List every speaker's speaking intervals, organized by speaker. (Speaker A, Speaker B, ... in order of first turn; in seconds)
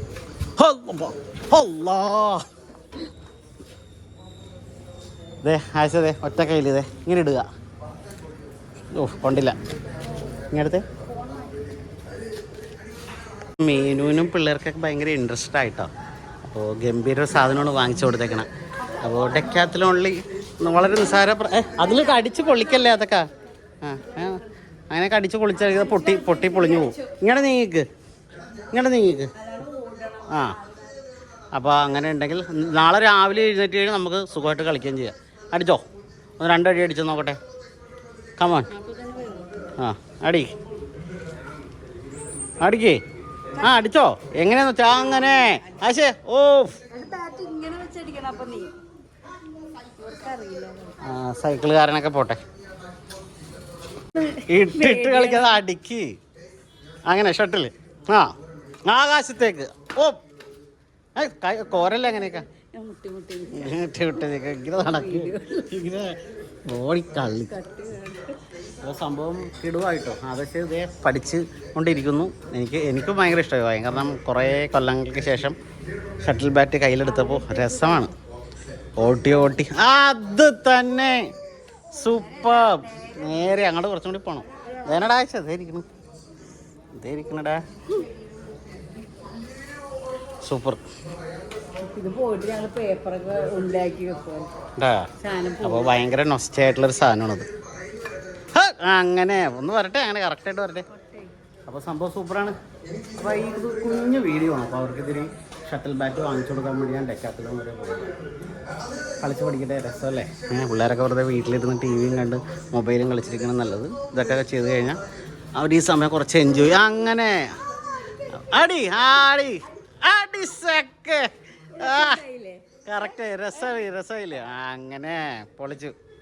Speaker A: 0.6-2.5, 5.4-7.5, 8.9-9.6, 10.5-10.8, 13.6-15.9, 16.4-18.5, 19.0-23.3, 23.8-27.9, 28.7-29.3, 30.3-30.6, 31.5-35.8, 36.4-37.4, 38.4-38.7, 39.8-40.5, 42.6-43.0, 43.6-46.8, 51.0-52.4, 54.3-56.1, 57.1-58.4, 58.9-60.2, 61.2-62.5, 63.5-67.6, 68.8-75.6, 76.2-78.1, 79.0-81.3, 81.9-85.9, 87.0-87.6, 90.4-90.8, 94.8-97.5, 98.5-100.8, 101.7-102.6, 103.2-108.1, 109.2-115.0, 115.6-117.5, 118.4-122.2, 122.8-125.9
Speaker B: 11.0-11.6, 25.7-27.1, 29.4-30.8, 38.7-39.7, 46.9-48.8, 49.5-51.0, 54.2-55.6, 62.2-63.8, 64.8-65.7, 67.5-68.4, 77.2-78.1, 82.6-83.1, 91.8-94.5, 95.2-96.0, 100.9-101.3, 121.7-122.6